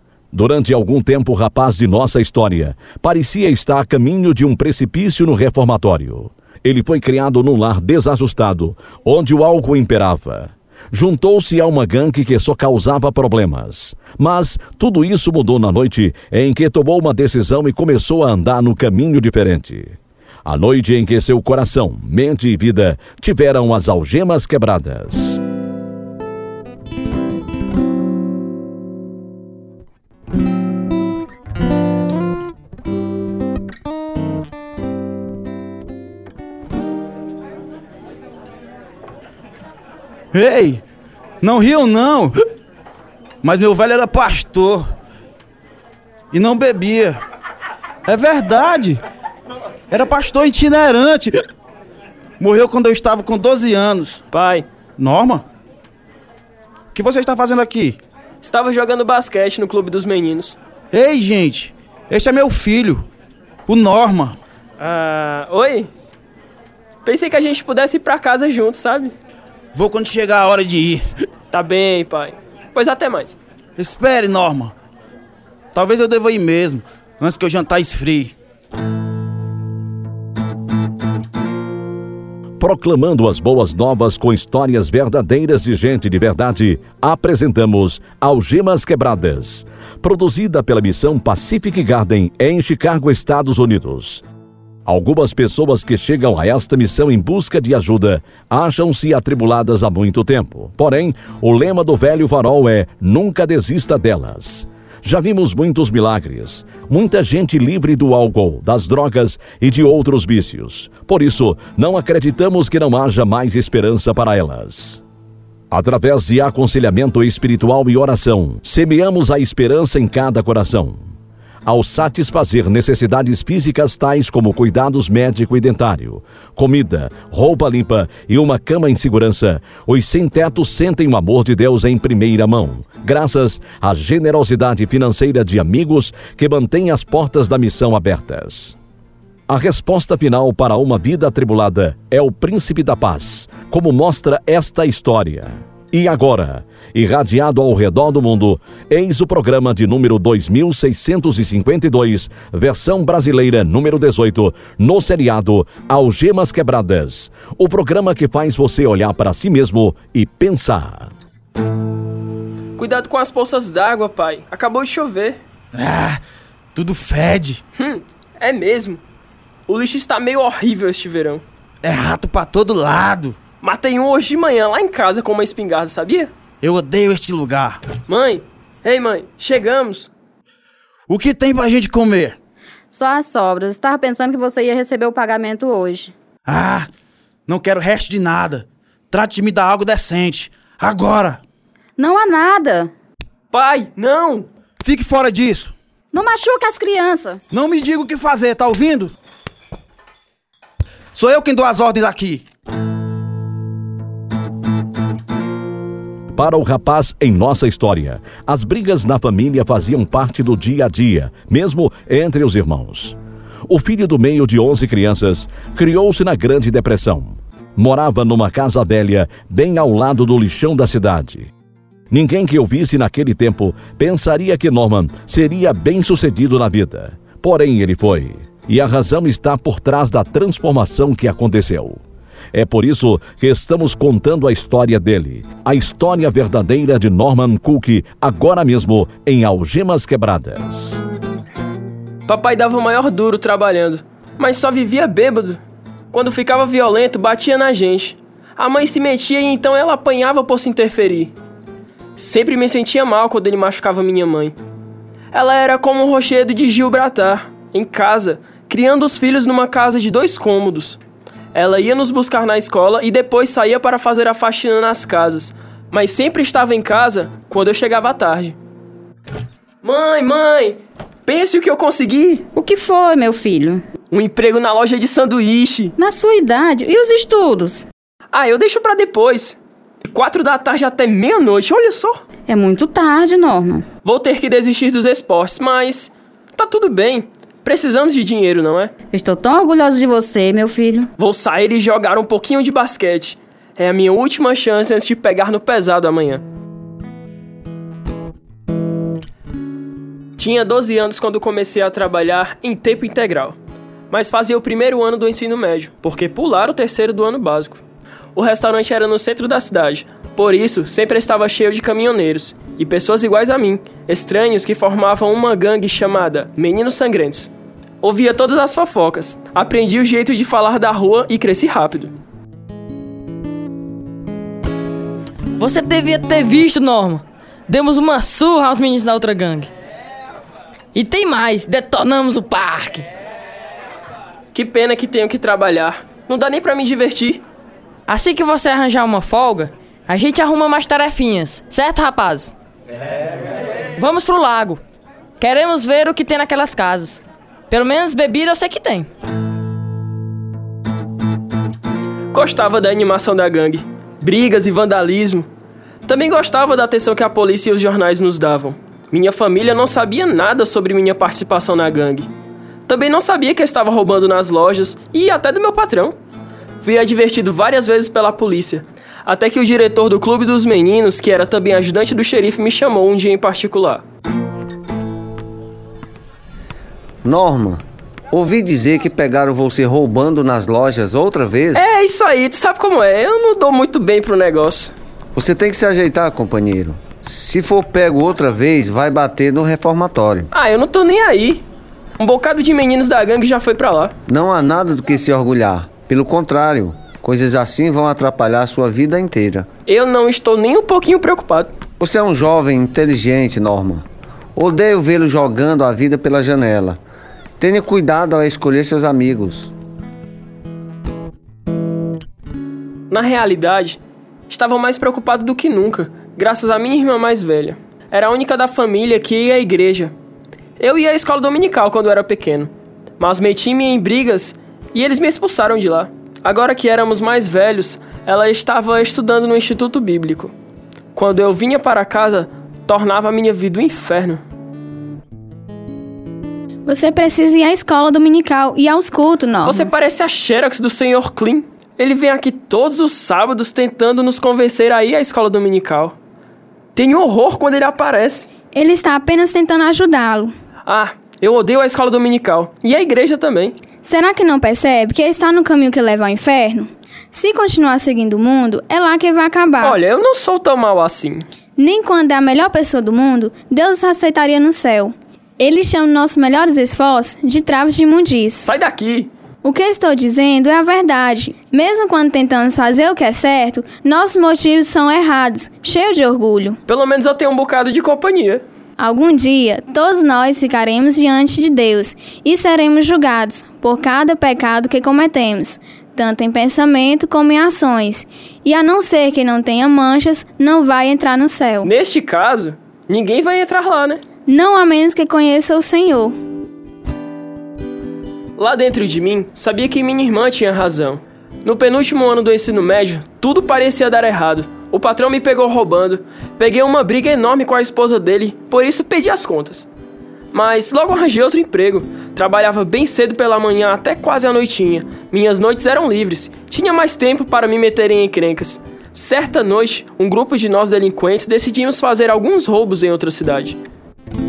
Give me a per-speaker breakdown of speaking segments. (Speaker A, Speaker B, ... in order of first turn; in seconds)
Speaker A: 0.3-25.4, 82.6-94.2, 94.9-115.0, 115.7-121.1, 121.7-138.8, 139.5-161.1, 206.3-213.2, 213.7-221.5, 222.1-232.0, 232.5-241.0
Speaker B: 40.3-40.8, 41.4-42.3, 43.4-44.9, 46.3-47.2, 48.1-49.0, 49.9-51.4, 52.4-54.2, 55.0-55.4, 56.9-58.0, 60.9-63.0, 63.7-64.4, 69.7-71.0, 73.8-74.7, 75.7-78.3, 165.8-166.2, 166.8-167.6, 171.8-173.4, 176.6-177.8, 181.1-182.4, 186.5-186.9, 187.5-191.4, 194.8-195.7, 197.5-199.1, 201.1-202.4
Speaker C: 54.3-54.7, 58.4-60.6, 64.8-65.9, 67.0-69.1, 71.5-73.4, 162.8-165.4, 167.8-169.0, 169.7-171.4, 173.6-176.3, 178.1-180.1, 193.5-194.5, 242.3-245.6, 246.1-251.3, 252.2-254.6, 255.3-261.0, 261.5-268.6, 269.8-272.5, 274.1-275.9, 278.3-282.2, 284.1-288.9, 291.2-296.4, 300.4-303.6, 304.1-307.8, 308.4-317.5, 318.0-322.1, 334.5-337.4, 352.3-355.5, 356.1-362.3, 362.9-366.2, 366.8-374.0, 381.8-384.9, 390.5-391.6, 392.2-394.1, 399.9-401.7, 413.1-414.0, 414.5-420.1, 420.8-430.5, 431.1-434.4, 439.6-446.1, 447.0-448.5, 450.9-453.8, 459.8-461.4, 468.6-469.3, 476.9-478.6, 491.8-494.2, 498.6-509.9, 510.5-523.8
Speaker D: 182.9-186.1, 192.0-192.9, 196.1-197.4, 272.5-273.8, 276.0-277.9, 282.5-283.9, 289.1-291.1
Speaker E: 325.6-329.7, 330.9-333.1, 338.1-342.5, 344.0-344.8, 345.4-349.1
Speaker F: 377.2-381.9, 385.4-390.5, 394.3-399.7, 402.0-404.1, 404.6-407.0, 407.6-409.7
Speaker G: 436.9-439.9, 448.7-450.5, 454.0-460.0, 461.8-468.7, 469.6-476.8, 479.0-491.9, 494.5-496.4